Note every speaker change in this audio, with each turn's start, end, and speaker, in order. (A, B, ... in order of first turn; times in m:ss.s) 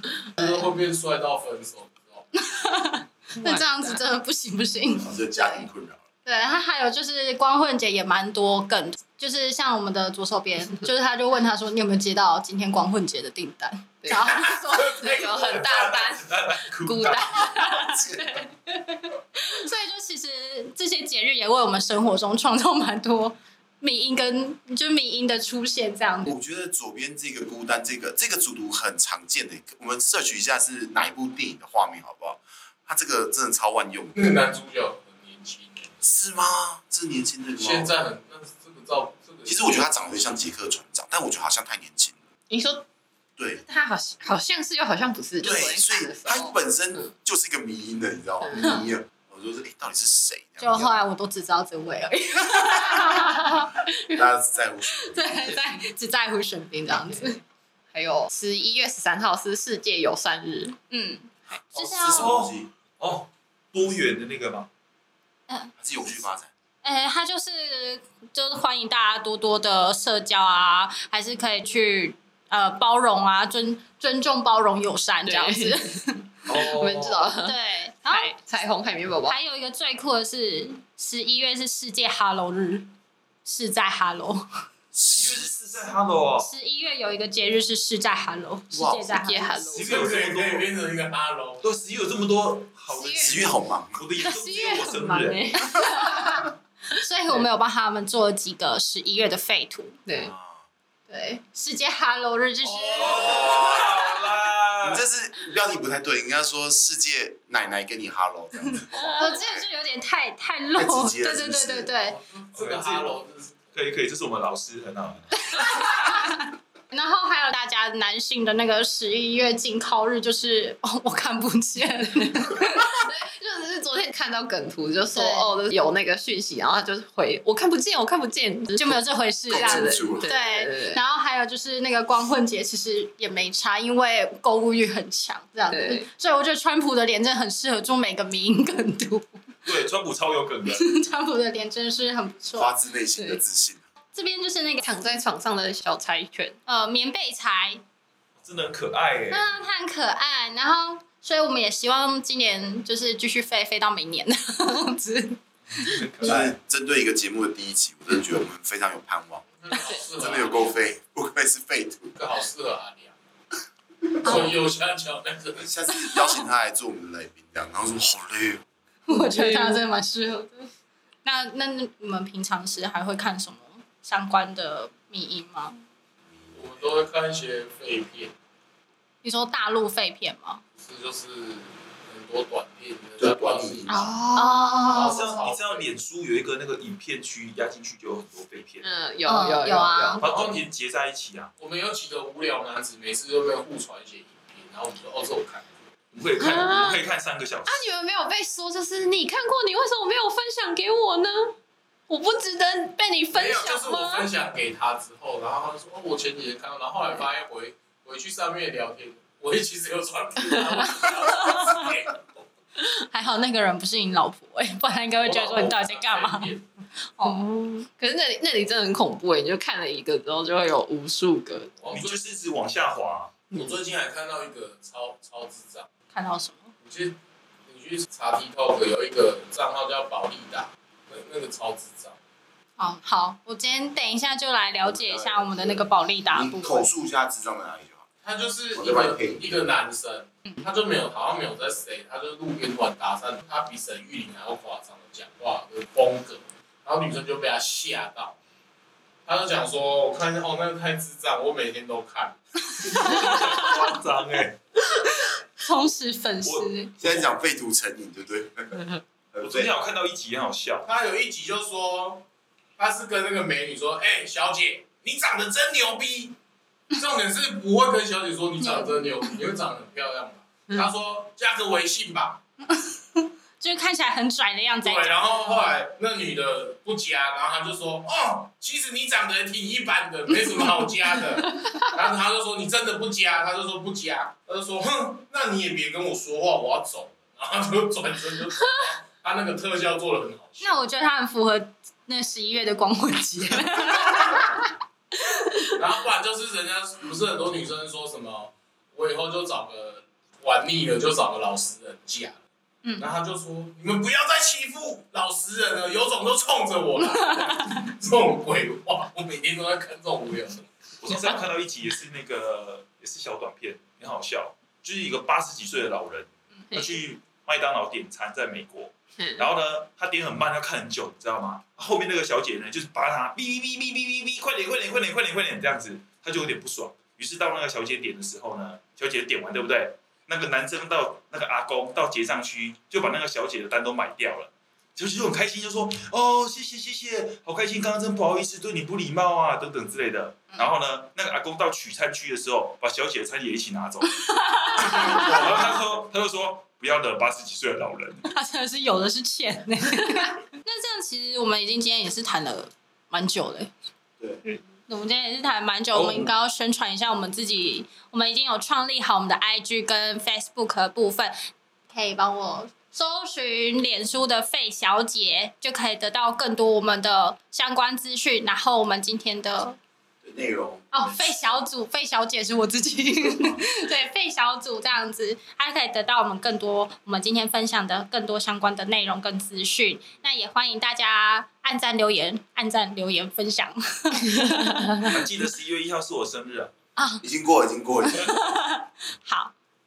0:00.4-0:02.3 A
0:02.3-0:05.7 B
0:03.4-0:04.0 C
0:05.0-0:06.0 D
0:06.2-0:15.2 B
0:14.0-0:18.2 C
0:14.7-0:15.8 A
0:15.5-0:17.5 E
0:17.3-0:26.3 B
0:26.3-0:34.4 D
0:34.2-0:36.0 A
0:36.0-0:37.9 D
0:37.6-0:39.9 A
0:39.5-0:42.2 D
0:42.5-0:42.8 C
0:43.4-0:43.6 D
0:43.6-0:46.6 C
0:45.4-0:51.0 D
0:48.4-0:48.8 C
0:50.6-0:53.9 B
0:54.1-0:55.6 D
0:55.0-0:57.4 B
0:57.9-1:00.8 C
1:00.9-1:02.3 B
1:01.8-1:02.7 D
1:01.8-1:04.7 E
1:05.8-1:06.5 D
1:06.8-1:16.3 B
1:15.3-1:17.6 C
1:16.5-1:17.3 E
1:17.4-1:18.4 B
1:18.1-1:19.4 C
1:19.3-1:22.9 B
1:23.4-1:24.5 B
1:24.9-1:25.5 D
1:25.0-1:26.5 E
1:26.4-1:29.7 B
1:28.7-1:29.2 D
1:29.2-1:29.9 C
1:29.7-1:30.7 E
1:29.8-1:31.6 A
1:31.6-1:35.6 E
1:32.9-1:33.4 C
1:33.2-1:34.0 D
1:34.2-1:36.4 C
1:35.6-1:40.0 B
1:40.1-1:40.3 C
1:40.2-1:40.6 D
1:41.1-1:43.6 B
1:42.6-1:45.0 E
1:43.1-1:44.1 D
1:44.8-1:49.6 D
1:48.9-1:49.4 C
1:49.0-1:52.2 B
1:50.8-1:51.9 D
1:52.1-1:53.7 A
1:52.5-1:53.2 E
1:53.7-1:55.6 E
1:55.5-2:02.9 B
2:02.8-2:11.0 C
2:05.1-2:05.6 B
2:08.8-2:19.3 B
2:09.5-2:10.3 D
2:15.7-2:16.1 C
2:19.6-2:21.0 E
2:20.7-2:22.7 B
2:22.6-2:23.8 D
2:23.2-2:23.4 C
2:24.1-2:24.9 B
2:24.8-2:26.6 C
2:26.7-2:27.8 B
2:28.4-2:29.7 E
2:29.3-2:36.4 B
2:35.8-2:36.6 E
2:36.2-2:39.5 D
2:39.6-2:40.8 A
2:39.8-2:40.1 C
2:40.1-2:42.1 D
2:42.2-2:43.2 A
2:44.2-2:45.7 A
2:44.2-2:44.5 B
2:45.6-2:48.6 D
2:46.0-2:46.3 B
2:49.1-2:50.7 B
2:49.2-2:49.8 C
2:51.2-2:55.8 B
2:56.4-2:57.0 D
2:56.5-2:58.3 A
2:59.2-3:00.6 B
3:00.8-3:04.1 A
3:03.2-3:04.2 D
3:03.9-3:04.9 C
3:04.4-3:05.2 B
3:04.9-3:06.0 A
3:05.0-3:08.9 E
3:08.8-3:10.2 C
3:09.3-3:10.2 B
3:10.2-3:11.5 E
3:10.2-3:10.7 A
3:11.6-3:15.8 A
3:16.1-3:17.9 E
3:16.4-3:17.0 C
3:17.7-3:21.6 C
3:22.1-3:24.3 C
3:23.3-3:32.3 A
3:31.4-3:31.9 B
3:33.1-3:36.5 B
3:35.2-3:36.7 A
3:37.2-3:37.6 B
3:37.2-3:41.7 C
3:41.8-3:42.2 A
3:41.9-3:43.4 E
3:43.5-3:45.9 A
3:46.1-3:46.7 B
3:46.8-3:52.2 A
3:52.8-3:56.9 B
3:54.8-3:58.1 D
3:58.2-4:08.4 A
3:58.7-3:59.6 D
4:09.2-4:12.4 A
4:12.8-4:13.9 B
4:12.8-4:14.6 E
4:15.0-4:16.9 B
4:16.4-4:17.3 E
4:17.0-4:19.7 D
4:19.4-4:20.9 E
4:20.8-4:22.2 A
4:22.8-4:26.4 A
4:26.9-4:32.4 A
4:28.6-4:29.4 B
4:32.8-4:35.7 B
4:34.8-4:50.7 A
4:50.6-4:54.7 B
4:55.4-4:55.7 B
4:55.7-5:02.4 A
5:02.8-5:03.1 B
5:03.0-5:10.7 A
5:11.0-5:48.3 E
5:16.7-5:17.0 C
5:19.2-5:19.5 C
5:44.3-5:45.6 B
5:48.3-5:53.7 B
5:54.9-6:01.4 B
5:55.9-5:56.3 E
6:01.9-6:09.8 B
6:10.2-6:11.4 D
6:10.9-6:25.1 B
6:13.2-6:13.6 D
6:25.1-6:26.7 E
6:27.0-6:27.2 B
6:27.2-6:28.4 D
6:28.1-6:29.5 B